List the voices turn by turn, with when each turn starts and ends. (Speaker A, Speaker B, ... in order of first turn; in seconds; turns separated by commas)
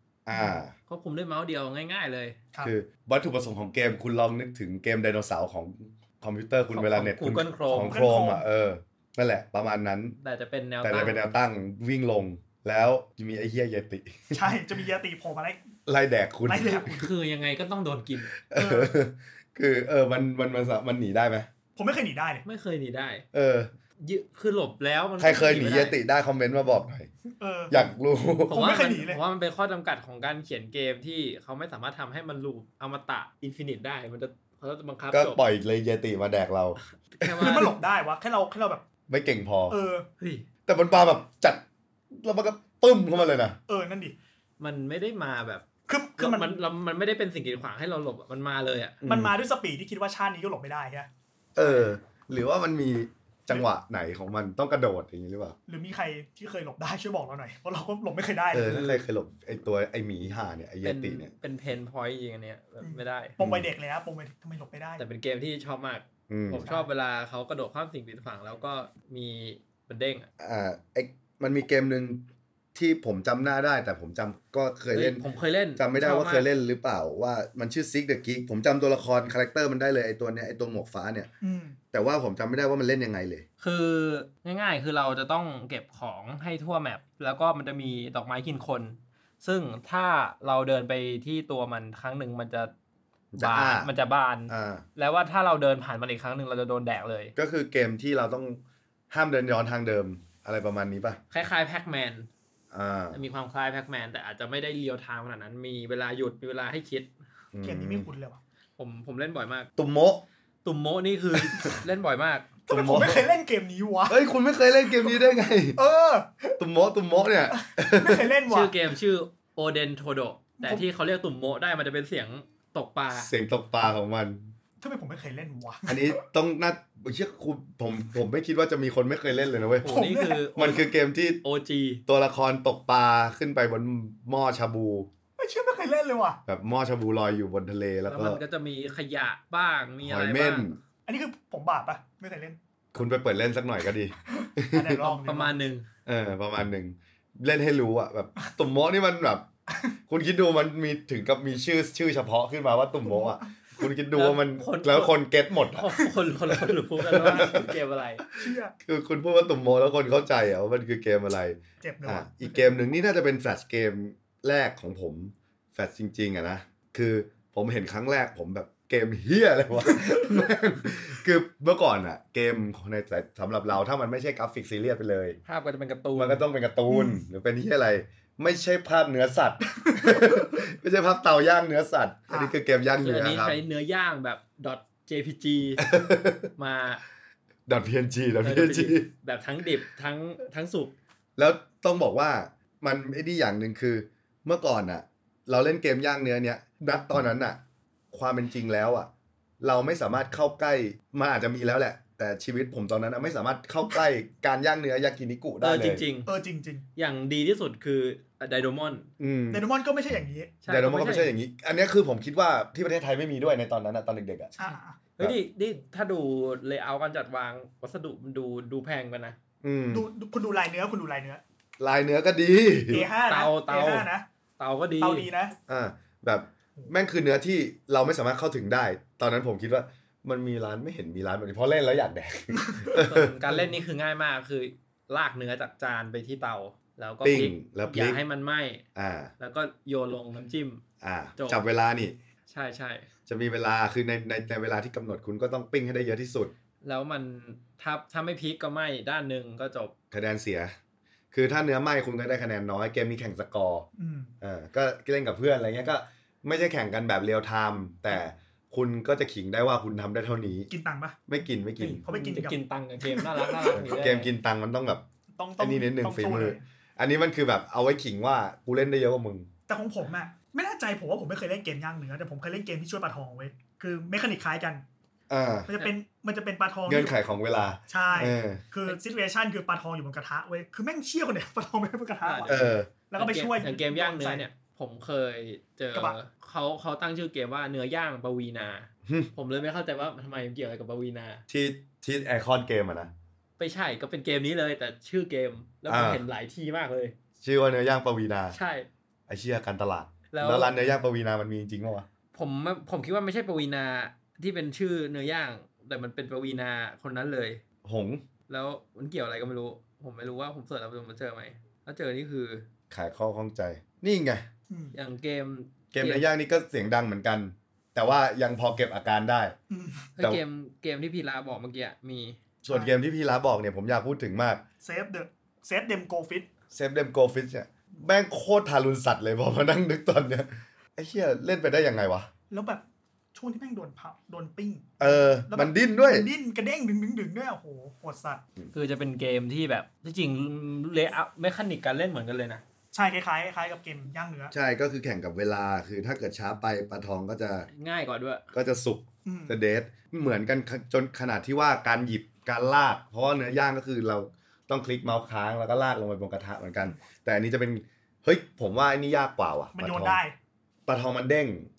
Speaker A: 0.3-0.8, Speaker B: 0.3-0.6, Speaker C: 0.9-2.4, Speaker A: 2.6-10.2, Speaker C: 6.7-8.0, Speaker B: 7.7-8.5, Speaker C: 10.2-11.2, Speaker A: 10.8-14.6, Speaker B: 14.3-15.7, Speaker A: 15.9-17.0, Speaker B: 16.5-17.1, Speaker C: 16.8-18.3, Speaker A: 18.4-21.5, Speaker B: 18.6-19.0, Speaker B: 21.8-22.4, Speaker C: 22.4-23.2, Speaker A: 23.3-23.7, Speaker C: 24.0-26.0, Speaker A: 25.2-27.1, Speaker B: 27.4-27.9, Speaker A: 27.7-28.6, Speaker C: 28.5-35.4, Speaker B: 28.5-29.2, Speaker A: 35.1-36.8, Speaker C: 37.1-37.8, Speaker B: 37.4-38.9, Speaker A: 39.1-39.8, Speaker B: 39.7-40.1, Speaker C: 40.2-40.5, Speaker A: 40.7-43.6, Speaker B: 43.7-44.1, Speaker C: 44.6-45.7, Speaker B: 45.9-46.6, Speaker C: 46.2-49.0, Speaker A: 49.0-49.3, Speaker B: 49.0-51.1, Speaker A: 51.5-55.6, Speaker C: 51.6-51.9, Speaker B: 55.7-58.9, Speaker A: 58.5-61.3, Speaker C: 58.7-59.0, Speaker C: 60.8-63.4, Speaker B: 62.8-65.0, Speaker A: 63.4-63.7, Speaker C: 65.0-70.3, Speaker A: 66.3-66.7, Speaker B: 66.6-66.9, Speaker A: 70.4-75.2, Speaker C: 74.9-76.5, Speaker A: 75.8-81.3, Speaker B: 81.4-81.8, Speaker A: 81.9-83.5, Speaker C: 83.6-92.7, Speaker A: 93.3-93.9, Speaker C: 93.4-97.3, Speaker A: 94.5-94.8, Speaker A: 97.4-98.6, Speaker A: 99.1-101.2, Speaker C: 101.3-102.3, Speaker A: 102.7-103.2, Speaker C: 103.1-107.1, Speaker A: 107.5-108.1, Speaker B: 107.6-108.4, Speaker C: 108.8-109.7, Speaker A: 109.8-110.2, Speaker C: 110.6-112.5, Speaker B: 112.7-114.2, Speaker A: 112.7-113.3, Speaker A: 114.1-115.8, Speaker B: 115.8-116.6, Speaker A: 116.6-118.3, Speaker B: 117.5-118.8, Speaker C: 118.5-123.3, Speaker B: 120.6-120.8, Speaker A: 123.1-124.5, Speaker B: 124.8-126.2, Speaker A: 125.9-129.9, Speaker C: 129.8-130.9, Speaker B: 129.8-130.7, Speaker A: 130.6-131.4, Speaker C: 131.4-132.0, Speaker A: 132.1-135.1, Speaker B: 135.4-136.4, Speaker A: 136.5-138.4, Speaker C: 138.1-140.7, Speaker A: 140.0-140.8, Speaker B: 141.1-142.6, Speaker A: 142.9-145.1, Speaker B: 144.3-145.6, Speaker C: 145.0-145.9, Speaker A: 146.1-149.5, Speaker A: 150.1-157.7, Speaker B: 153.1-153.4, Speaker C: 154.1-155.2, Speaker C: 155.7-158.2, Speaker B: 157.2-157.6, Speaker A: 158.3-175.4, Speaker B: 158.4-158.7, Speaker B: 161.8-162.8, Speaker C: 175.5-176.4, Speaker A: 176.2-183.6, Speaker B: 176.9-177.2, Speaker B: 179.7-180.6, Speaker B: 182.3-182.6, Speaker C: 183.0-185.9, Speaker A: 185.8-186.5, Speaker C: 186.6-187.0, Speaker A: 187.7-189.1, Speaker C: 188.4-191.0, Speaker A: 191.4-197.6, Speaker A: 198.1-206.0, Speaker C: 205.6-206.3, Speaker B: 206.3-206.9, Speaker C: 207.0-209.1, Speaker A: 209.2-209.7, Speaker B: 209.5-210.6, Speaker C: 210.6-211.3, Speaker A: 210.7-214.5, Speaker B: 214.6-215.0, Speaker C: 214.6-219.4, Speaker A: 219.6-220.1, Speaker B: 219.9-221.4, Speaker A: 221.8-223.1, Speaker B: 222.9-224.2, Speaker C: 222.9-225.3, Speaker B: 225.0-225.6, Speaker A: 225.7-233.4, Speaker B: 232.5-232.9, Speaker C: 232.9-238.8, Speaker A: 237.2-238.2, Speaker A: 238.9-239.3, Speaker C: 239.4-240.8, Speaker A: 241.0-242.2, Speaker C: 241.4-241.6, Speaker C: 242.5-243.1, Speaker A: 243.3-246.5, Speaker C: 246.8-249.9, Speaker A: 250.1-250.8, Speaker A: 251.3-253.9, Speaker B: 254.0-254.3, Speaker A: 254.4-260.7, Speaker B: 260.7-261.2, Speaker A: 261.3-262.0, Speaker C: 261.8-264.3, Speaker B: 262.0-263.8, Speaker A: 263.7-265.0, Speaker B: 265.4-266.6, Speaker A: 265.6-269.5, Speaker B: 269.7-274.9, Speaker A: 275.3-275.7, Speaker B: 275.7-277.1, Speaker A: 276.9-278.6, Speaker B: 277.9-284.5, Speaker C: 282.2-291.4, Speaker A: 282.5-282.9, Speaker A: 291.5-293.1, Speaker C: 293.6-297.2, Speaker A: 295.9-296.2, Speaker A: 297.4-298.6, Speaker C: 298.5-298.9, Speaker A: 299.3-302.1, Speaker C: 300.3-300.8, Speaker C: 302.3-307.6, Speaker A: 307.8-308.2, Speaker C: 308.5-312.7, Speaker A: 312.9-314.5, Speaker B: 314.7-314.9, Speaker C: 314.9-316.3, Speaker A: 315.9-319.6, Speaker B: 319.7-320.1, Speaker C: 320.2-322.4, Speaker A: 322.6-324.6, Speaker B: 324.8-326.5, Speaker A: 326.7-332.3, Speaker B: 332.5-332.8, Speaker B: 333.4-338.4, Speaker A: 335.0-336.3, Speaker C: 338.7-342.6, Speaker B: 342.9-344.5, Speaker A: 344.5-347.7, Speaker C: 347.7-348.5, Speaker A: 348.5-360.2, Speaker B: 349.2-349.6, Speaker B: 359.8-360.4, Speaker A: 360.9-361.7